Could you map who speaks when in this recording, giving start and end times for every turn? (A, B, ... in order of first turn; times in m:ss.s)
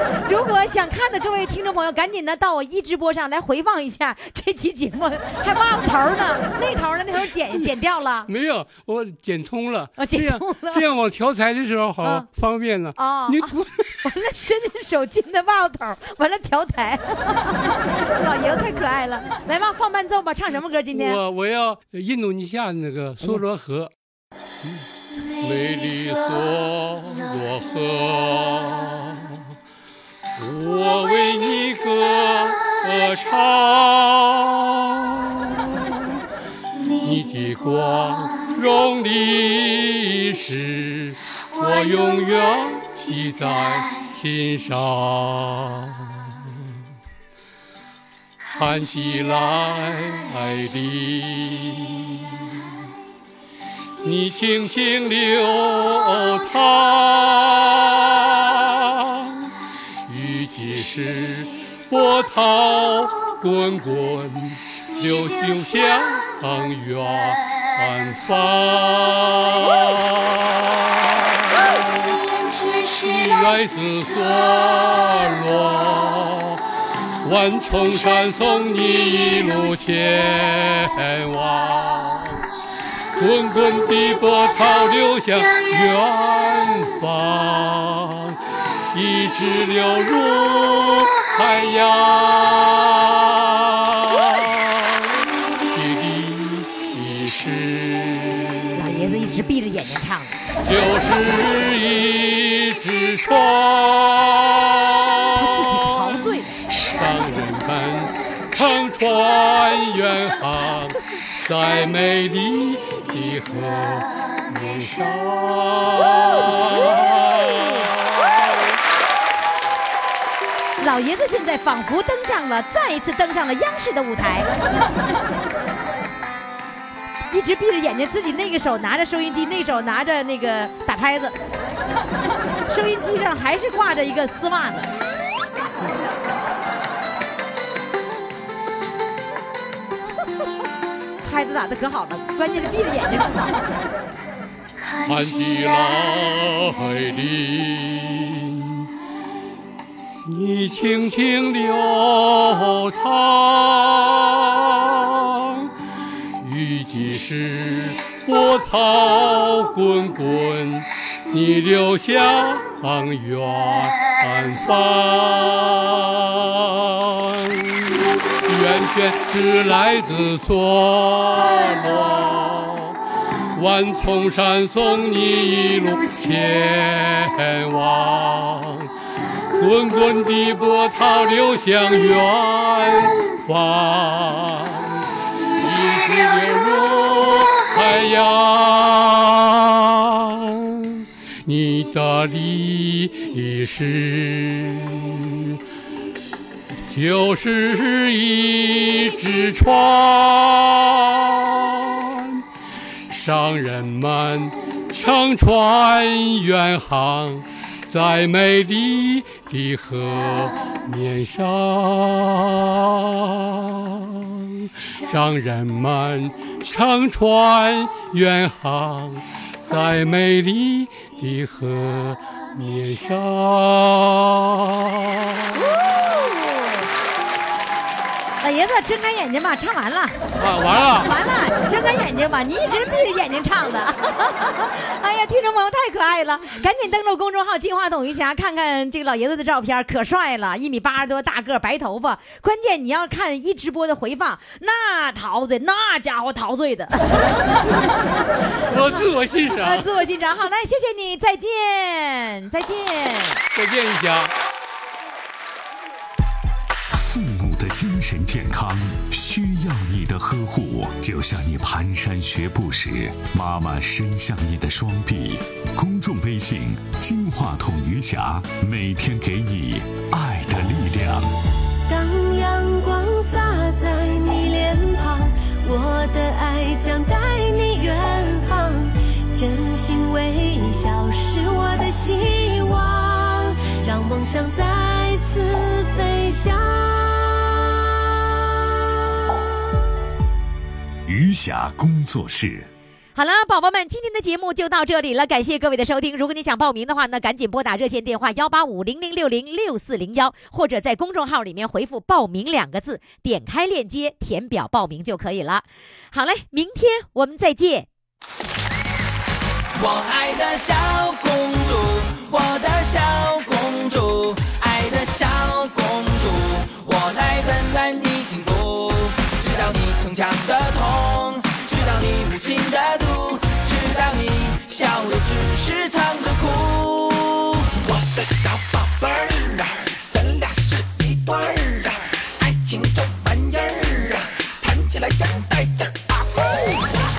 0:00.3-0:08.3 A
0:08.3-0:14.0 B
0:10.0-0:10.9 A
0:12.0-0:12.3 A
0:13.0-0:21.2 A
0:20.9-0:23.9 B
0:25.4-0:29.5 B
0:30.4-0:36.2 B
0:36.9-0:46.9 B
0:48.5-0:52.8 B
0:54.0-0:59.5 B
1:00.1-1:12.2 B
1:12.8-1:16.6 B
1:17.2-1:22.4 B
1:23.2-1:28.4 B
1:28.9-1:39.4 B
1:38.8-1:40.4 A
1:40.6-1:46.3 B
1:45.4-1:46.6 A
1:46.8-1:58.6 B
2:00.8-2:04.5 A
2:07.3-2:11.3 A
2:12.7-2:14.9 A
2:21.2-2:23.6 A
2:25.0-2:28.9 B
2:30.2-2:35.7 B
2:36.4-2:53.0 B
2:53.5-2:58.9 B
2:59.5-3:15.6 B
3:16.9-3:22.4 B
3:23.1-3:45.6 B
3:45.5-3:46.9 A
3:48.4-3:50.2 A
3:50.4-3:51.1 B
3:51.0-4:08.1 A
4:08.7-4:09.9 B
4:09.6-4:13.4 A
4:13.5-4:14.3 B
4:16.9-4:31.3 C
4:31.9-4:47.8 D
4:51.1-4:52.7 C
4:53.2-5:07.9 A
5:09.8-5:36.8 E